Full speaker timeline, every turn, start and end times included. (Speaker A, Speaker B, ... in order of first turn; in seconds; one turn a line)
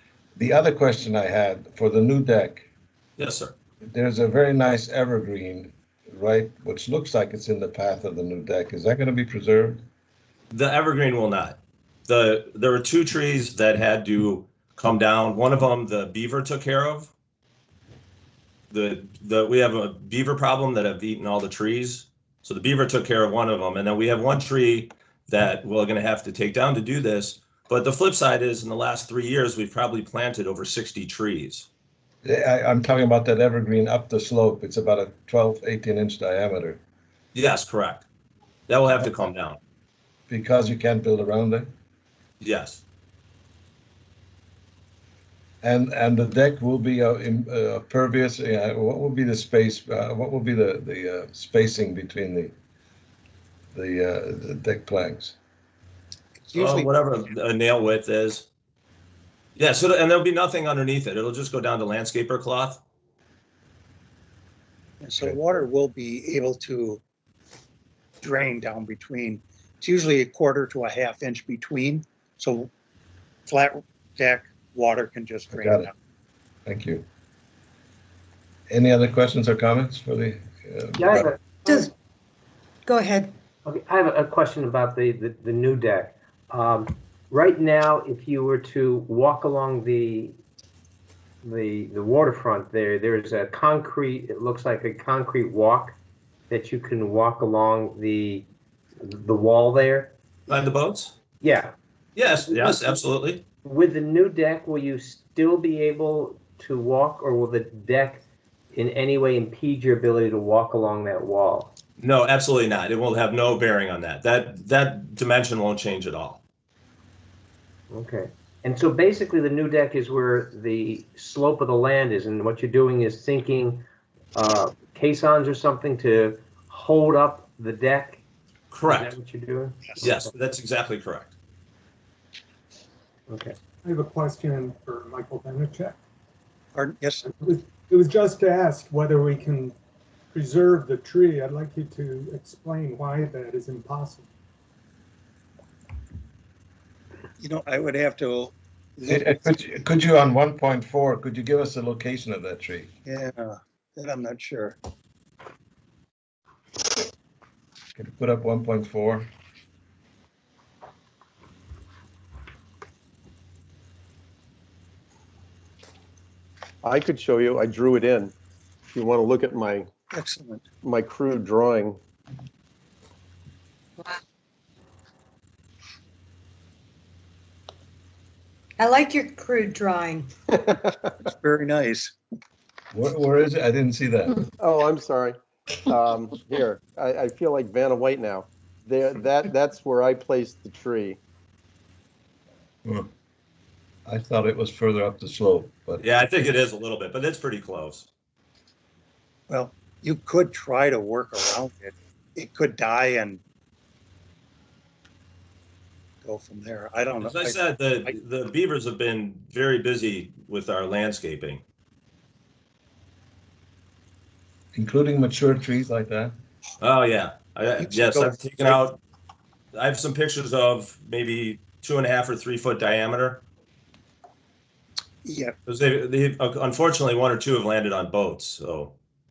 Speaker A: 0.4-2.7
Speaker B: 3.2-3.5
Speaker A: 3.9-9.8
Speaker B: 10.5-17.1
Speaker B: 18.7-31.7
Speaker A: 32.2-36.8
Speaker B: 37.3-38.1
Speaker B: 38.7-39.6
Speaker A: 40.3-41.7
Speaker B: 42.4-42.8
Speaker A: 45.6-52.5
Speaker A: 53.7-55.4
Speaker C: 56.4-57.0
Speaker B: 56.5-58.5
Speaker B: 59.6-62.8
Speaker C: 65.0-67.0
Speaker A: 65.2-65.4
Speaker C: 68.2-72.7
Speaker C: 73.5-75.9
Speaker A: 75.5-75.9
Speaker A: 76.7-77.0
Speaker A: 78.7-81.3
Speaker D: 81.0-81.8
Speaker E: 81.7-81.9
Speaker E: 82.9-83.3
Speaker D: 83.7-90.4
Speaker D: 91.4-96.0
Speaker D: 96.5-98.5
Speaker D: 99.0-100.2
Speaker B: 100.5-101.2
Speaker D: 101.4-101.7
Speaker B: 102.2-103.4
Speaker D: 102.4-103.0
Speaker D: 103.6-111.7
Speaker B: 112.0-116.4
Speaker D: 117.9-128.2
Speaker B: 128.7-129.2
Speaker D: 128.9-130.3
Speaker B: 130.0-131.3
Speaker D: 133.3-133.6
Speaker F: 133.8-136.0
Speaker C: 136.8-137.3
Speaker F: 137.4-139.8
Speaker F: 140.3-144.3
Speaker C: 147.4-149.4
Speaker A: 149.1-152.9
Speaker C: 153.1-154.8
Speaker A: 158.0-159.3
Speaker G: 166.8-168.3
Speaker G: 168.9-169.9
Speaker C: 170.1-170.7
Speaker G: 170.8-172.0
Speaker E: 178.8-180.3
Speaker C: 181.2-182.2
Speaker A: 182.9-184.4
Speaker G: 184.6-191.2
Speaker A: 194.1-196.2
Speaker B: 196.0-198.1
Speaker C: 199.5-203.4
Speaker C: 206.2-208.2
Speaker B: 207.2-211.6
Speaker A: 214.8-216.3
Speaker B: 216.8-219.0
Speaker C: 217.8-218.8
Speaker B: 219.7-223.4
Speaker C: 225.2-225.6
Speaker B: 225.7-228.9